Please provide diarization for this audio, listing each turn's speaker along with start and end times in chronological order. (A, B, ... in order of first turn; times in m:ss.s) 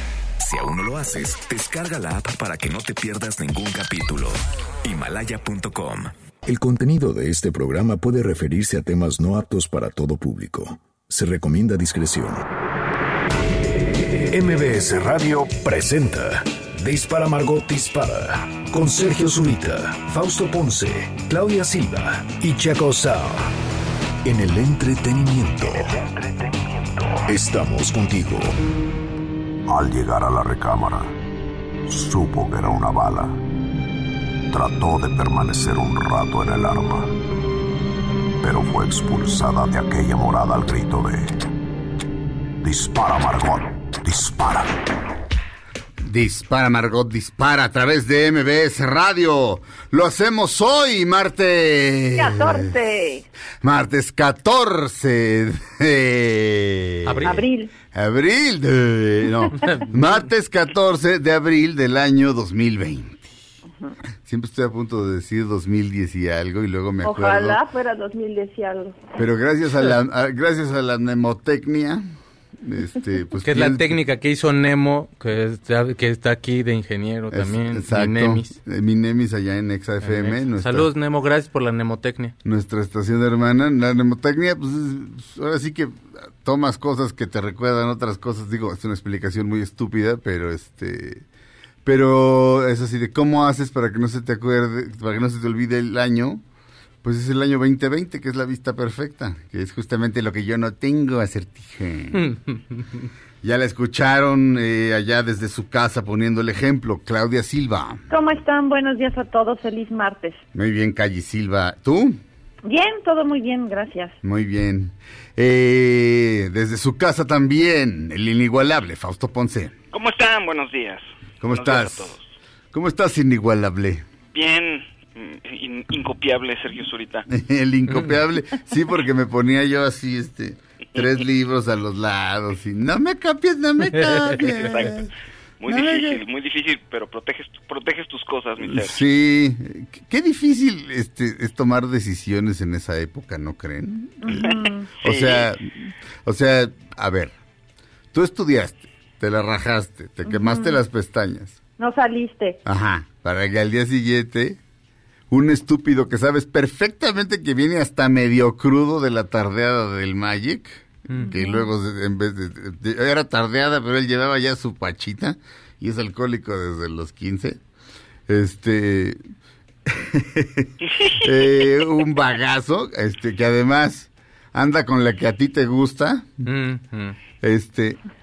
0:00.4-0:06.1 A
0:06.4-0:12.4 B
0:13.7-0:23.5 B
0:24.2-0:26.0 B
0:26.0-0:27.2 A
0:27.3-0:28.6 B
0:29.7-0:31.2 C
0:31.9-0:33.4 C
0:34.5-0:37.1 C
0:38.4-0:41.4 C
0:42.6-0:44.7 C
0:46.0-0:52.7 D
0:52.2-0:53.3 E
0:53.6-1:03.3 D
0:57.0-0:57.4 F
0:57.2-0:57.7 E
0:59.6-0:59.9 F
1:04.2-1:07.6 D
1:07.0-1:09.1 E
1:09.2-1:12.1 D
1:12.6-1:14.0 D
1:13.4-1:18.6 F
1:17.3-1:20.9 D
1:20.0-1:22.4 F
1:22.4-1:31.3 D
1:31.8-1:36.4 D
1:37.0-1:42.4 D
1:42.1-1:43.1 F
1:43.4-1:48.1 D
1:48.1-1:50.4 E
1:50.5-1:52.2 D
1:52.6-1:54.2 E
1:54.2-1:59.8 D
1:59.9-2:02.2 G
2:01.4-2:02.2 D
2:02.7-2:04.1 D
2:04.3-2:07.3 G
2:07.3-2:15.1 D
2:13.9-2:14.4 F
2:14.4-2:15.1 G
2:15.6-2:19.0 G
2:15.7-2:16.2 D
2:18.6-2:27.3 D
2:24.2-2:24.9 E
2:24.4-2:25.5 G
2:28.1-2:31.6 D
2:30.3-2:30.8 E
2:31.8-2:32.6 E
2:32.6-2:34.6 D
2:35.3-2:47.6 D
2:41.1-2:41.4 F
2:41.2-2:41.7 E
2:48.3-2:49.2 D
2:49.9-2:56.5 D
2:50.8-2:51.3 G
2:56.4-2:57.2 F
2:57.4-2:58.0 D